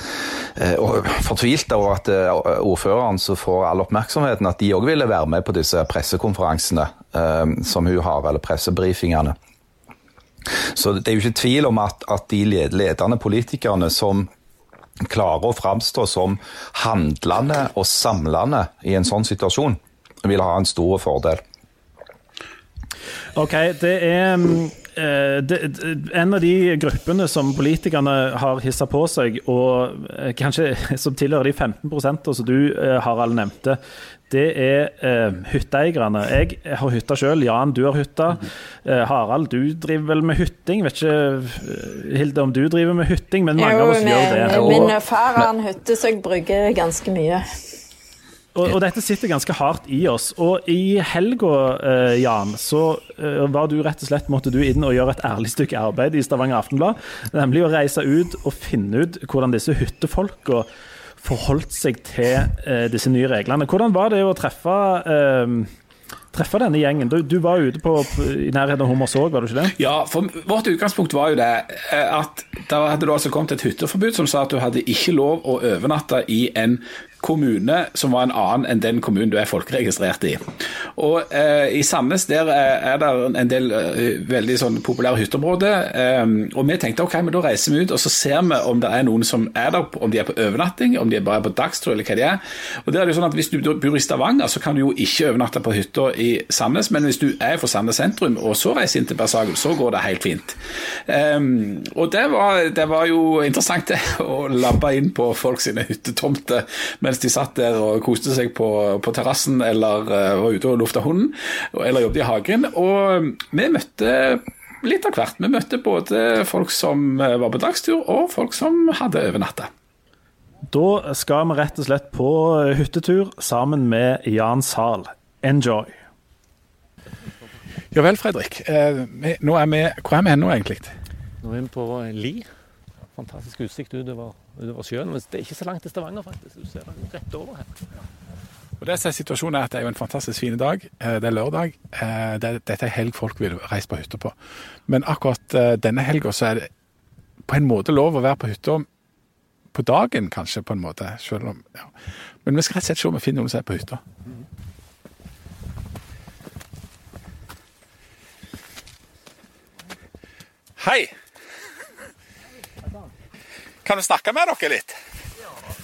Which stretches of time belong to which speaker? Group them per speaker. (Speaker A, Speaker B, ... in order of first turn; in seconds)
Speaker A: 0.6-9.4, 10.5-14.3, 15.0-21.4
Speaker B: 23.4-33.8, 34.3-45.0, 48.5-60.7, 61.2-65.7, 66.3-69.7, 120.7-126.0
Speaker C: 43.6-47.5
Speaker D: 69.8-119.7, 127.9-130.9, 138.8-144.3, 144.9-146.7, 147.5-148.9, 149.7-154.0, 160.8-161.1, 163.8-165.0
Speaker E: 131.4-132.5, 133.1-137.7